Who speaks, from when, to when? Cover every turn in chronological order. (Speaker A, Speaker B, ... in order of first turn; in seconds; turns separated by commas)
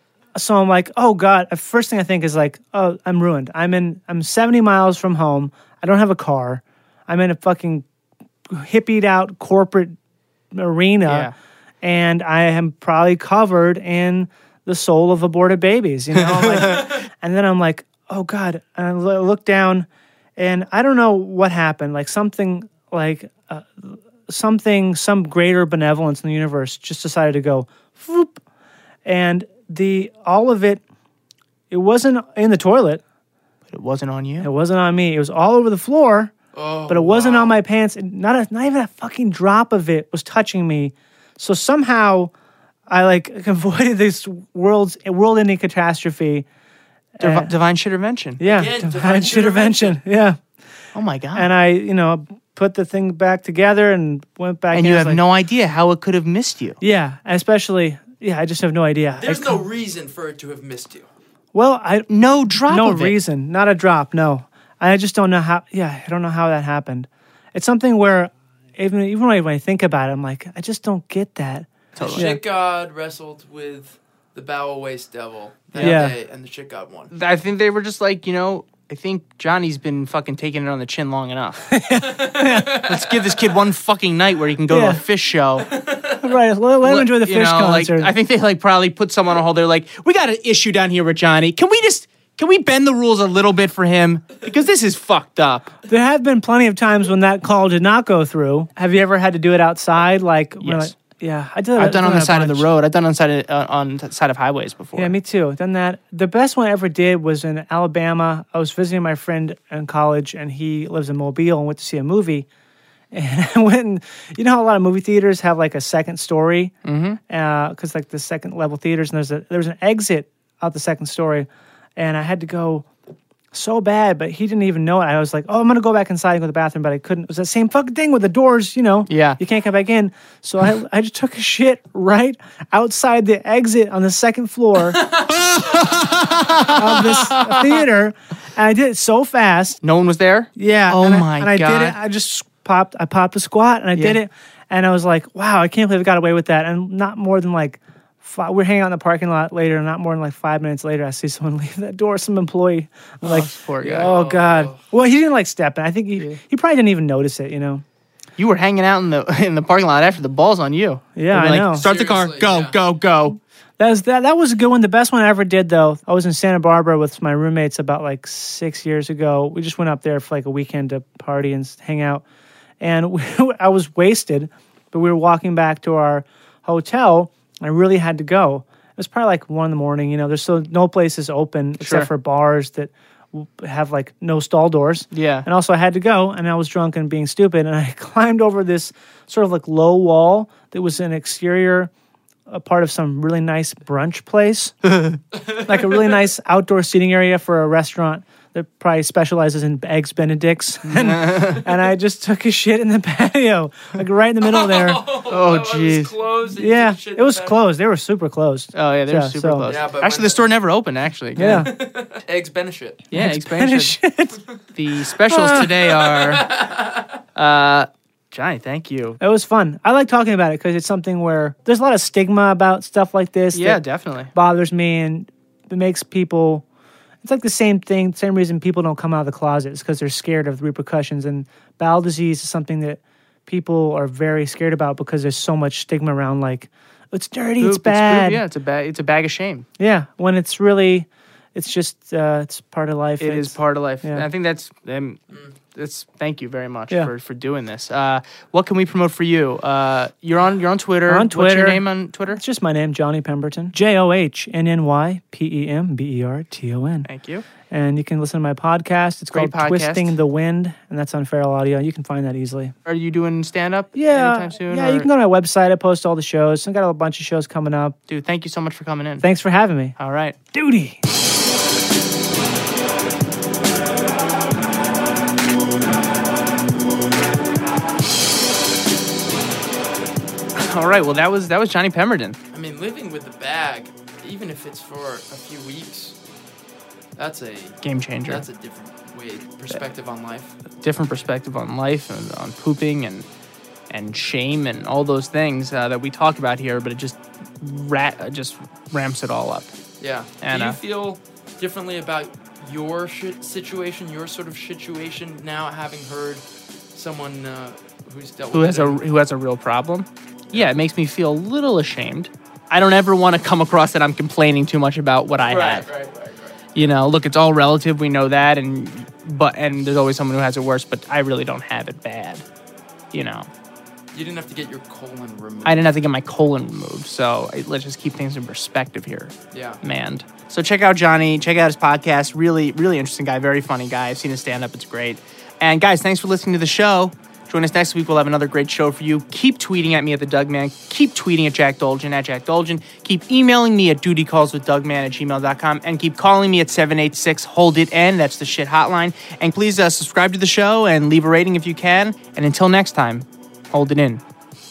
Speaker A: 0.3-7.8, Speaker A: 8.5-9.9, Speaker A: 10.5-28.4, Speaker B: 11.1-11.3, Speaker B: 16.1-16.9, Speaker A: 29.0-30.8, Speaker A: 31.7-33.0, Speaker B: 33.7-34.5, Speaker A: 34.4-36.3, Speaker C: 36.5-37.6, Speaker A: 36.9-42.3, Speaker A: 42.9-46.5, Speaker A: 47.1-47.5, Speaker B: 47.2-48.4, Speaker A: 48.4-50.4, Speaker C: 48.4-50.0, Speaker B: 50.9-51.5, Speaker A: 51.3-55.2, Speaker B: 54.7-56.8, Speaker A: 56.8-59.6, Speaker C: 59.2-61.1, Speaker A: 61.5-72.4, Speaker B: 62.1-63.1, Speaker B: 72.0-72.3, Speaker C: 72.0-77.1, Speaker B: 75.7-76.1, Speaker A: 75.8-76.1, Speaker B: 77.1-81.7, Speaker A: 81.7-82.9, Speaker C: 82.1-83.4, Speaker B: 82.8-85.7, Speaker A: 84.7-85.0, Speaker C: 85.7-86.2, Speaker A: 86.2-88.1, Speaker B: 86.8-95.7, Speaker A: 95.9-102.7, Speaker B: 100.6-100.9, Speaker B: 101.8-105.1, Speaker A: 105.0-112.5, Speaker A: 113.1-116.7, Speaker B: 116.8-117.2, Speaker A: 117.3-122.9, Speaker A: 123.5-135.1, Speaker B: 129.1-129.4, Speaker B: 135.3-137.8, Speaker A: 136.7-139.8, Speaker B: 139.8-142.0, Speaker A: 140.6-157.8, Speaker B: 153.2-154.1, Speaker C: 153.8-154.8, Speaker B: 158.4-163.4, Speaker A: 161.2-161.9, Speaker C: 161.8-162.8, Speaker A: 163.8-172.2, Speaker A: 172.8-191.9, Speaker B: 181.8-182.1, Speaker B: 185.1-185.5, Speaker A: 192.5-194.8, Speaker B: 194.8-195.2, Speaker C: 195.4-195.9, Speaker A: 195.6-205.0, Speaker B: 200.8-201.6, Speaker C: 204.4-207.6, Speaker B: 205.2-206.1, Speaker A: 206.6-209.7, Speaker B: 208.7-211.7, Speaker C: 209.6-210.5, Speaker A: 211.4-211.7, Speaker C: 211.4-213.1, Speaker B: 213.1-214.0, Speaker A: 213.1-214.4, Speaker B: 214.7-216.7, Speaker A: 215.2-215.7, Speaker C: 215.4-217.1, Speaker B: 217.3-219.2, Speaker A: 219.2-226.6, Speaker B: 223.5-224.3, Speaker A: 227.2-238.4, Speaker B: 237.6-239.7, Speaker A: 239.8-244.3, Speaker B: 243.2-245.2, Speaker B: 245.7-252.4, Speaker A: 251.1-257.1, Speaker B: 257.0-257.4, Speaker A: 257.7-262.7, Speaker B: 259.3-260.1, Speaker B: 262.8-265.1, Speaker A: 263.9-268.0, Speaker B: 268.1-269.2, Speaker A: 269.2-269.9, Speaker B: 270.0-270.4, Speaker A: 270.5-271.0, Speaker B: 280.5-282.4, Speaker C: 282.5-286.1, Speaker C: 287.1-290.5, Speaker B: 287.8-288.4, Speaker B: 290.8-293.2, Speaker B: 293.9-299.7, Speaker C: 300.0-309.0, Speaker B: 300.4-300.8, Speaker B: 308.5-315.9, Speaker C: 310.5-310.8, Speaker C: 315.4-316.8, Speaker B: 316.7-322.4, Speaker B: 323.1-323.5, Speaker C: 324.1-326.0, Speaker B: 325.6-354.2, Speaker C: 329.5-329.8